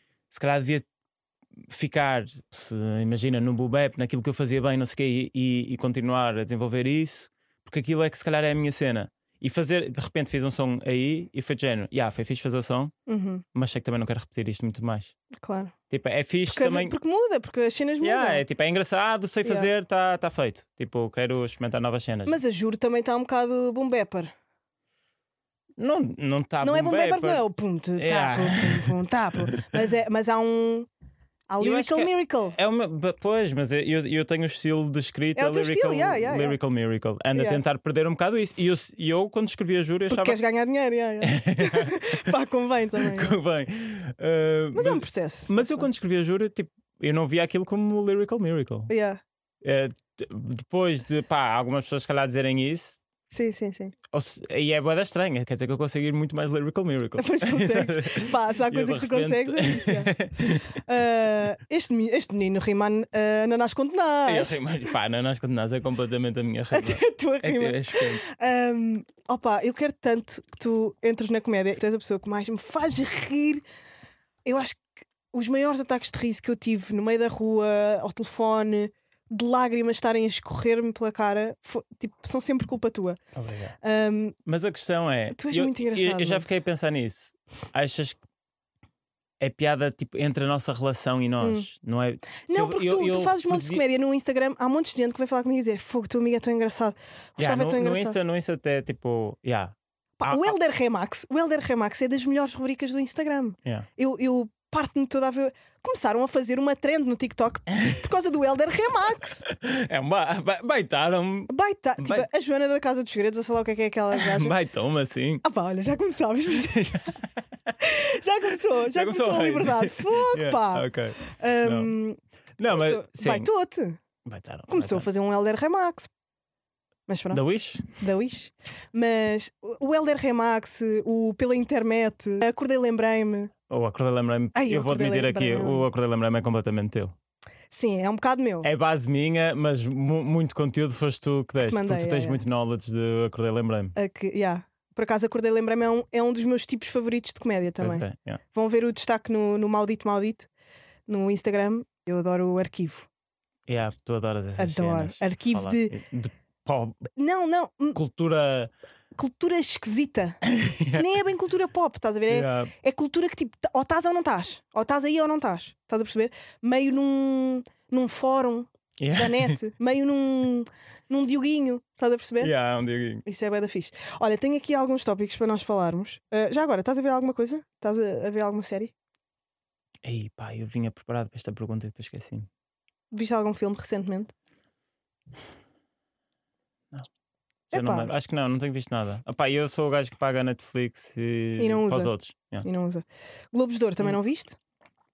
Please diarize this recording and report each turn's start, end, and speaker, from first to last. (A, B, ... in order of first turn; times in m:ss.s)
0:00.3-0:00.9 A
0:01.7-0:12.9 A
0:13.1-0:13.4 B
0:13.5-0:15.1 A
0:15.4-0:15.7 B
0:15.9-0:16.9 A
0:16.5-0:18.4 B
0:18.0-0:22.4 A
0:22.2-0:24.3 B
0:25.8-0:27.4 A
0:26.6-0:30.9 B
0:28.0-0:28.9 A
0:31.5-0:32.5 B
0:31.6-0:40.4 A
0:35.4-0:36.6 B
0:37.3-0:37.6 B
0:40.1-0:43.4 B
0:41.2-0:42.3 A
0:43.0-0:48.9 A
0:44.7-0:45.9 B
0:48.9-0:49.2 B
0:49.6-0:53.0 A
0:53.3-0:53.9 B
0:54.1-1:00.8 A
0:57.2-1:04.6 B
1:04.2-1:08.2 A
1:06.7-1:13.6 B
1:14.4-1:23.2 B
1:23.3-1:23.7 A
1:23.8-1:24.4 B
1:24.4-1:28.2 A
1:25.3-1:26.4 B
1:29.4-1:33.8 A
1:31.4-1:31.7 B
1:32.4-1:38.2 B
1:37.4-1:40.5 A
1:40.2-1:49.4 B
1:49.4-1:52.3 A
1:51.5-1:54.5 B
1:54.1-1:55.4 A
1:55.4-1:57.1 B
1:56.5-1:57.7 A
1:57.8-2:04.0 B
1:58.7-2:01.9 A
2:02.6-2:03.5 A
2:04.2-2:05.1 A
2:04.7-2:06.1 B
2:07.1-2:07.4 B
2:07.3-2:08.0 A
2:08.0-2:13.5 B
2:13.7-2:17.1 A
2:14.5-2:15.9 B
2:17.7-2:18.7 B
2:18.6-2:23.9 A
2:21.6-2:22.4 B
2:23.9-2:30.5 B
2:27.8-2:28.4 A
2:31.1-2:33.1 B
2:33.7-2:37.1 A
2:34.6-2:35.9 B
2:37.2-2:38.0 B
2:37.9-2:38.7 A
2:39.2-2:40.4 B
2:40.4-2:41.1 A
2:40.9-2:52.5 B
2:42.3-2:42.7 A
2:49.0-2:49.6 A
2:52.4-2:53.2 A
2:53.2-2:58.9 B
3:00.0-3:02.5 A
3:03.1-3:04.3 B
3:07.7-3:08.1 B
3:07.7-3:12.6 A
3:11.6-3:14.6 B